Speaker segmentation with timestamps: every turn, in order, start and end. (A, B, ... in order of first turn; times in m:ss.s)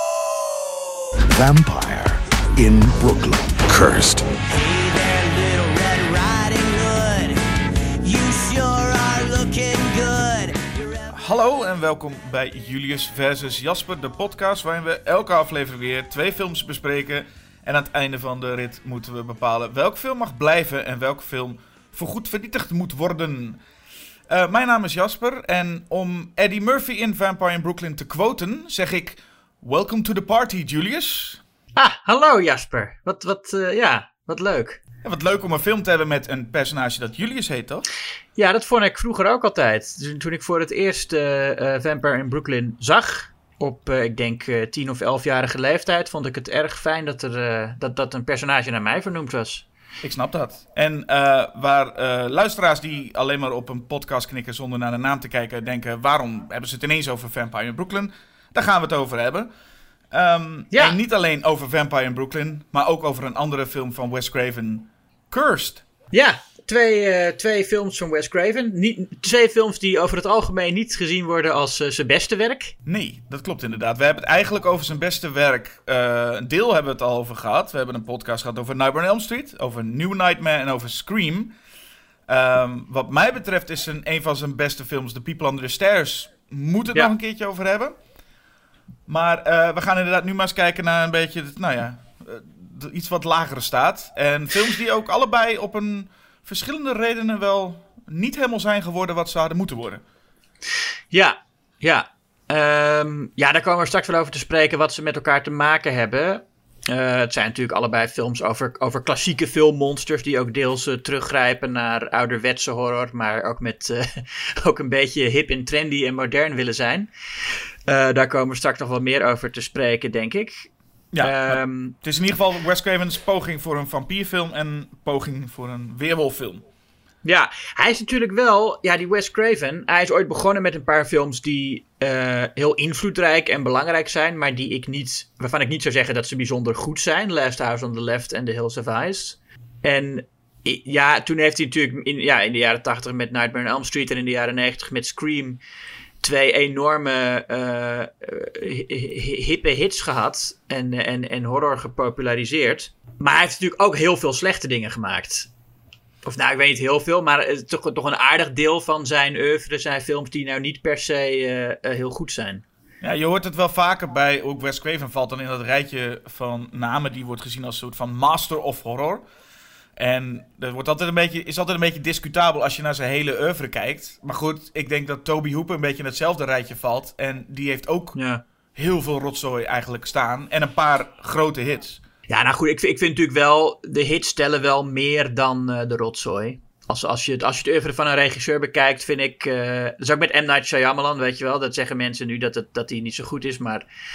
0:01.2-0:04.3 A
0:04.5-0:07.4 B
0:08.0-0:11.1 B
0:11.1-0:23.6 C
0:24.3-0:31.4 C
0:31.8-0:34.8 D
0:35.0-0:37.9 C
0:38.4-0:49.6 D
0:50.0-0:59.5 C
1:00.1-1:05.8 C
1:00.7-1:01.0 D
1:06.1-1:12.7 D
1:12.9-1:21.6 C
1:22.3-1:28.0 C
1:29.1-1:40.0 C
1:41.1-1:57.1 D
1:57.9-2:00.7 D
2:01.1-2:06.6 C
2:01.2-2:01.9 D
2:07.2-2:25.6 D
2:26.2-2:35.5 D
2:36.2-2:42.6 D
2:43.0-2:49.2 C
2:50.0-2:58.2 C
2:58.2-2:58.4 D
2:58.8-3:02.0 C
3:02.3-3:13.8 D